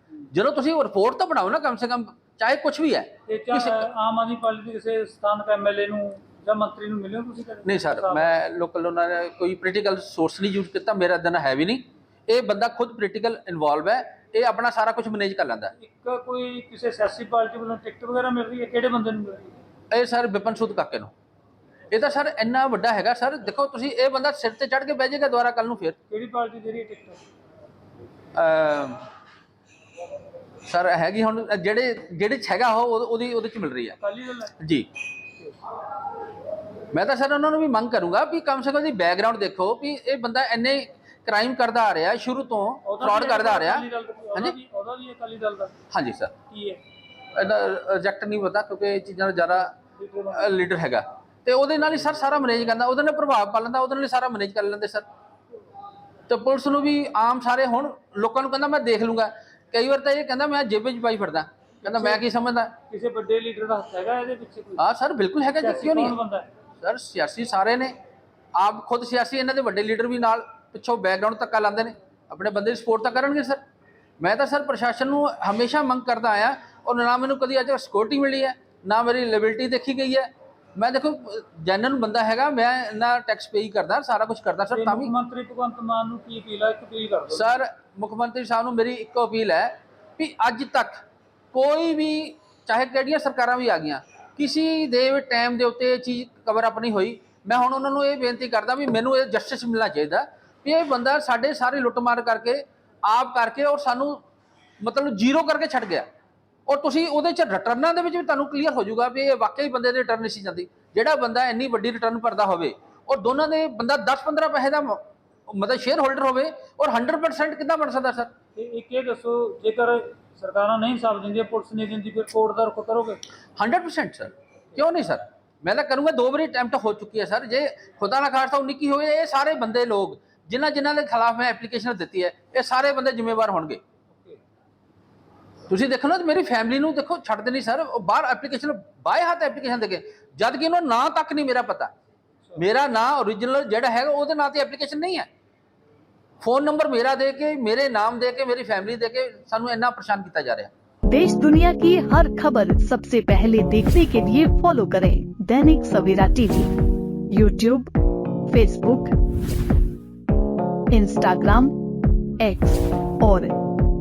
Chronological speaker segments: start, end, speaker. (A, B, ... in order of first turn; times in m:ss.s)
0:00.3-0:03.9 A
0:03.3-0:08.3 B
0:07.6-0:15.7 A
0:15.8-0:19.6 B
0:19.9-0:21.1 A
0:21.9-0:26.0 A
0:26.1-0:27.2 B
0:28.4-0:29.0 A
0:30.6-0:34.0 A
0:34.0-0:34.5 B
0:34.6-0:34.9 A
0:36.9-0:44.6 A
0:42.8-0:45.7 B
0:45.9-0:46.4 A
0:46.5-0:46.8 B
0:47.3-0:49.8 A
0:50.0-0:50.6 B
0:50.3-0:55.0 A
0:56.3-1:02.8 A
1:01.8-1:02.2 B
1:02.9-1:04.8 B
1:04.8-1:06.2 A
1:05.6-1:06.5 B
1:06.8-1:07.9 A
1:08.5-1:13.6 A
1:14.2-1:25.1 A
1:24.7-1:27.6 B
1:27.3-1:44.2 A
1:44.8-1:46.1 A
1:46.7-1:58.3 A
1:58.5-2:03.2 B
2:03.6-2:13.8 A
2:14.1-2:14.4 B
2:15.7-2:21.9 A
2:22.6-2:25.3 A
2:26.4-2:30.7 A
2:31.1-2:36.7 C
2:37.3-2:37.9 C
2:38.5-2:39.1 C
2:40.9-2:41.7 C
2:42.4-2:43.6 C